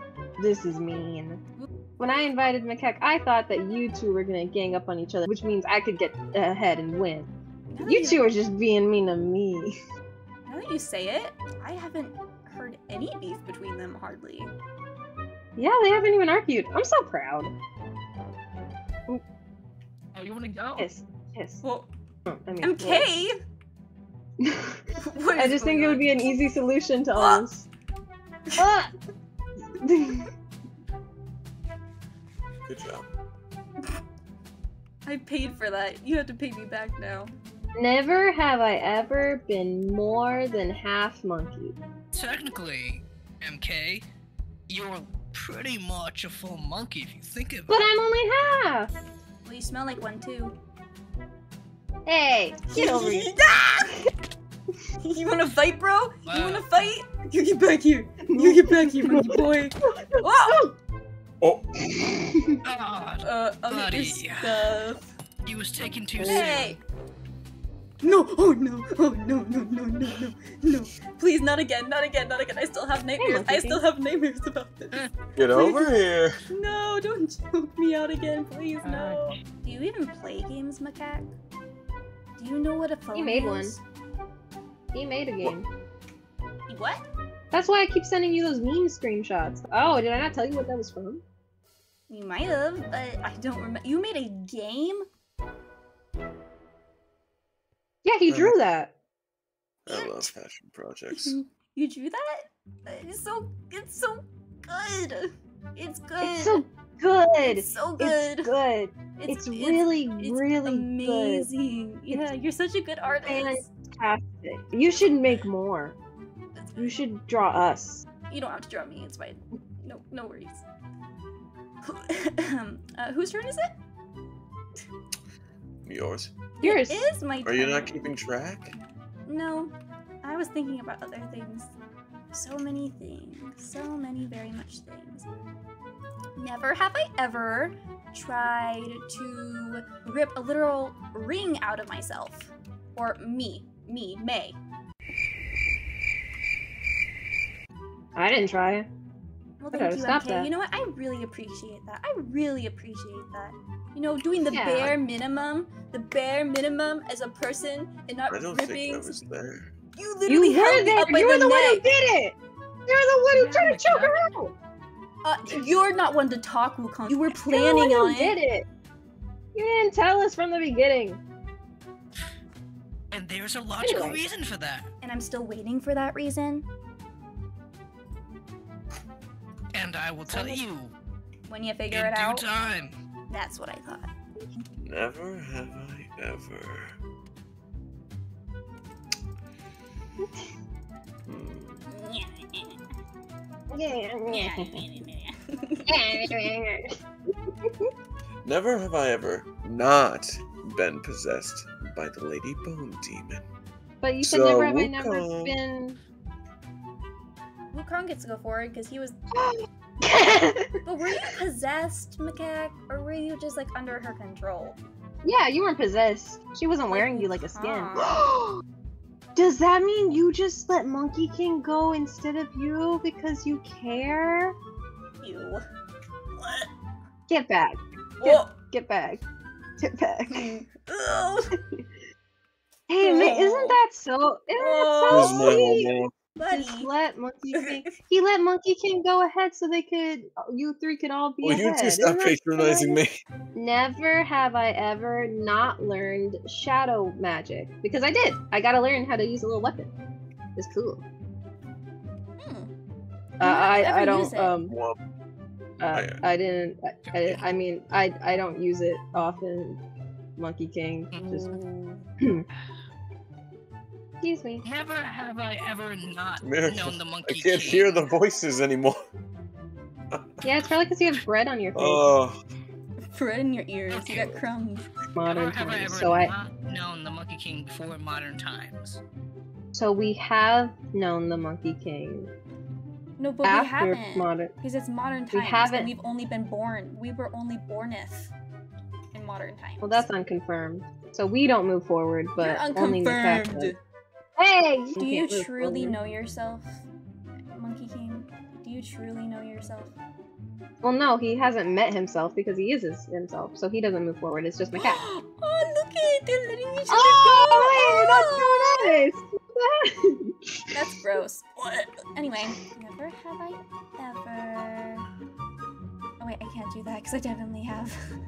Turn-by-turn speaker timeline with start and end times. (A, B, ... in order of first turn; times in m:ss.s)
0:00.4-0:01.4 A
0:02.0-0:07.3 A
0:07.7-0:08.3 B
0:07.8-0:09.8 A
0:10.5-0:14.5 B
0:15.6-0:17.5 A
0:20.1-0:20.9 C
0:20.8-0:21.6 A
0:21.6-0:21.9 B
0:22.3-0:23.1 A
0:22.6-0:23.3 B
0:24.4-0:24.8 A
0:25.0-0:26.3 B
0:25.4-0:27.7 A
0:27.2-0:27.4 B
0:28.6-0:28.9 A
0:29.8-0:30.3 A
0:32.6-0:33.1 D
0:35.1-0:37.3 B
0:37.8-0:41.8 A
0:42.1-0:44.1 C
0:44.7-0:47.8 C
0:47.7-0:48.9 A
0:49.4-0:50.6 B
0:52.1-0:53.3 A
0:52.7-0:54.1 B
0:55.0-1:00.7 B
0:56.3-0:56.7 C
0:58.3-1:00.8 A
1:01.4-1:02.3 D
1:02.3-1:02.6 A
1:02.6-1:04.7 C
1:03.2-1:05.0 B
1:05.4-1:06.8 C
1:06.2-1:06.5 A
1:06.2-1:06.8 B
1:08.0-1:16.0 B
1:13.2-1:13.8 A
1:15.4-1:16.3 D
1:16.5-1:21.3 B
1:18.8-1:19.4 C
1:22.4-1:23.8 B
1:23.1-1:23.8 A
1:24.9-1:25.7 A
1:26.7-1:27.0 B
1:27.5-1:31.2 A
1:32.1-1:35.0 B
1:38.0-1:38.9 A
1:38.3-1:38.6 D
1:39.9-1:41.4 D
1:39.9-1:40.3 B
1:41.1-1:46.6 B
1:46.2-1:51.5 A
1:47.4-1:48.5 B
1:49.2-1:53.7 B
1:53.3-1:56.0 A
1:56.8-1:58.1 A
1:58.3-2:00.6 B
2:01.8-2:03.7 B
2:05.8-2:06.3 D
2:06.6-2:08.2 B
2:06.6-2:07.1 A
2:07.4-2:08.8 D
2:09.3-2:11.8 B
2:12.3-2:15.3 B
2:16.4-2:24.6 B
2:28.2-2:28.9 A
2:29.6-2:39.2 B
2:29.7-2:30.5 A
2:34.4-2:35.0 A
2:38.3-2:39.7 D
2:39.9-2:41.9 B
2:40.3-2:42.4 A
2:42.9-2:44.5 A
2:43.3-2:44.2 C
2:45.2-2:48.4 B
2:47.4-2:48.7 A
2:49.6-2:51.2 A
2:53.1-2:54.9 C
2:53.8-2:54.2 A
2:55.0-2:56.7 B
2:59.7-3:00.9 C
3:00.3-3:00.6 A
3:01.5-3:02.5 B
3:01.9-3:03.0 C
3:03.3-3:04.1 B
3:04.8-3:07.0 D
3:11.3-3:11.9 D
3:11.9-3:12.8 B
3:13.7-3:14.8 A
3:14.3-3:16.5 B
3:15.9-3:16.9 A
3:17.6-3:17.9 A
3:18.4-3:23.4 D
3:24.0-3:26.0 A
3:24.2-3:25.6 D
3:27.7-3:29.2 B
3:29.3-3:30.7 A
3:30.8-3:34.8 B
3:35.2-3:38.6 A
3:36.9-3:38.2 B
3:39.4-3:44.6 A
3:45.2-3:45.6 B
3:46.4-3:46.7 B
3:47.3-3:49.2 A
3:48.2-3:48.6 B
3:49.8-3:50.6 A
3:50.3-3:51.5 B
3:52.9-3:55.9 A
3:53.0-3:53.8 B
3:54.6-3:55.6 B
3:55.1-3:56.1 D
3:56.4-3:56.9 B
3:56.5-4:03.0 A
4:01.4-4:03.2 D
4:03.6-4:09.9 A
4:10.6-4:11.0 A
4:12.4-4:12.7 B
4:13.4-4:14.6 B
4:13.4-4:14.7 A
4:14.7-4:15.0 D
4:15.8-4:19.8 A
4:15.9-4:16.2 D
4:17.0-4:17.4 C
4:20.4-4:21.6 A
4:21.1-4:22.0 C
4:24.2-4:24.6 A
4:24.6-4:28.1 C
4:26.4-4:29.0 D
4:30.1-4:30.7 D
4:30.4-4:32.1 A
4:31.8-4:32.4 D
4:33.1-4:34.8 B
4:33.9-4:34.5 C
4:35.2-4:36.3 A
4:35.3-4:39.0 C
4:39.7-4:42.3 A
4:43.2-4:48.3 B
4:43.4-4:44.5 A
4:45.3-4:45.9 A
4:49.1-4:50.1 B
4:49.8-4:53.7 A
4:52.4-4:53.8 B
4:54.4-4:56.0 A
4:55.0-4:56.9 B
4:57.5-5:00.0 B
5:00.8-5:05.0 A
5:04.8-5:09.0 B
5:06.9-5:10.6 A
5:10.7-5:15.1 B
5:16.2-5:18.0 B